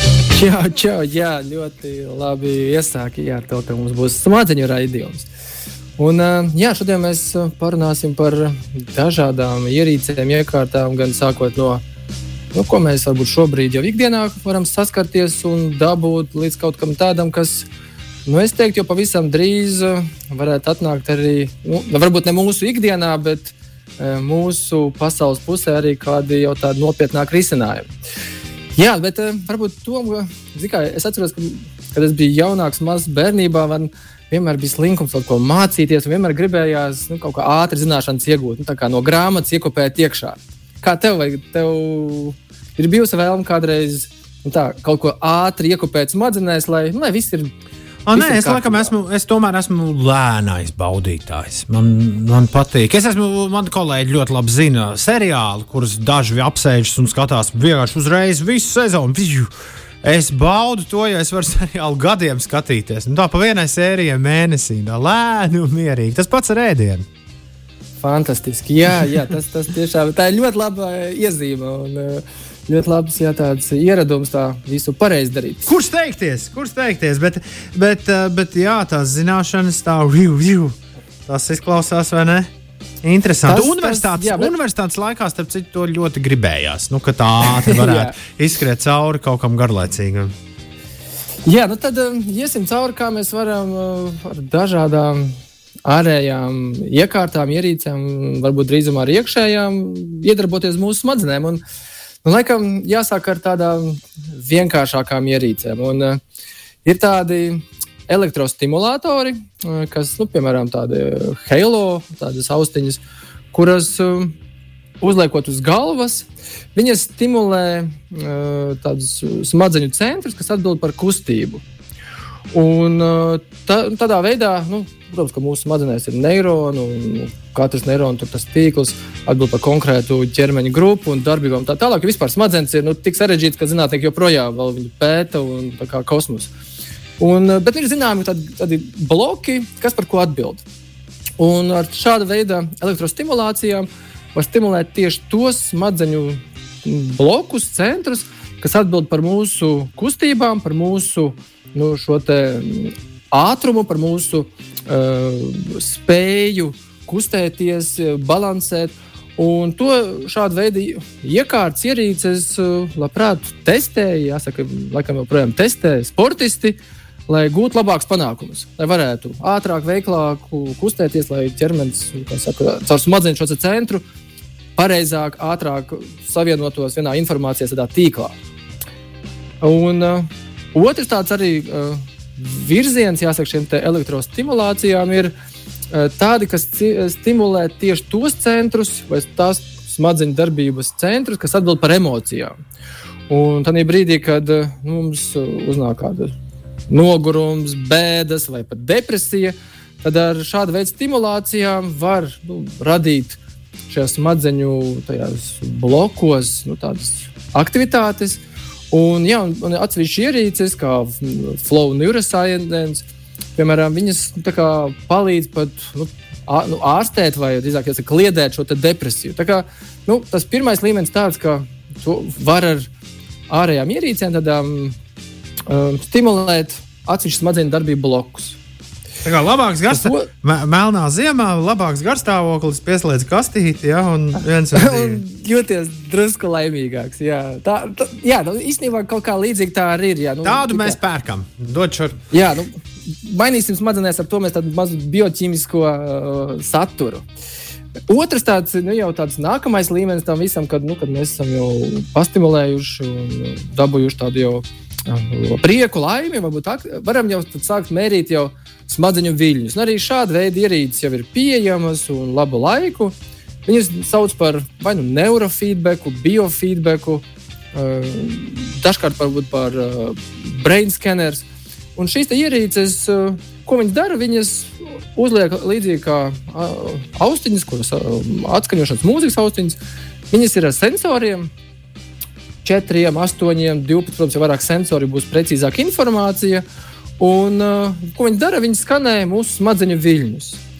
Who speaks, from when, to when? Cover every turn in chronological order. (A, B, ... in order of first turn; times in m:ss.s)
0:00.3-0:05.3 A
0:06.0-0:11.8 A
0:12.5-0:17.7 A
0:18.2-0:27.9 A
0:28.8-0:47.5 A
0:48.0-0:59.5 B
0:48.1-0:48.9 A
1:00.0-1:07.0 B
1:08.0-1:15.7 A
1:15.6-1:20.8 B
1:21.3-1:22.5 B
1:23.0-1:30.3 B
1:23.4-1:24.5 A
1:27.4-1:28.2 A
1:31.4-1:41.6 A
1:42.2-1:46.2 A
1:46.8-1:54.3 A
1:55.0-2:01.6 A
2:02.5-2:16.5 A
2:17.2-2:20.6 A
2:21.4-2:54.0 A
2:54.8-2:58.4 A
2:59.6-3:05.3 A
3:05.9-3:12.5 A
3:13.3-3:16.3 A
3:16.9-3:33.0 A
3:33.6-3:42.9 A
3:43.5-3:45.0 A
3:45.7-3:48.6 A
3:49.2-3:55.2 B
3:49.9-3:50.3 A
3:54.7-4:01.0 A
4:00.4-4:02.2 B
4:02.3-4:02.7 A
4:03.2-4:07.2 A
4:08.1-4:23.1 A
4:23.6-4:39.8 A
4:40.3-4:41.5 A
4:42.6-4:46.6 A
4:47.2-4:50.6 A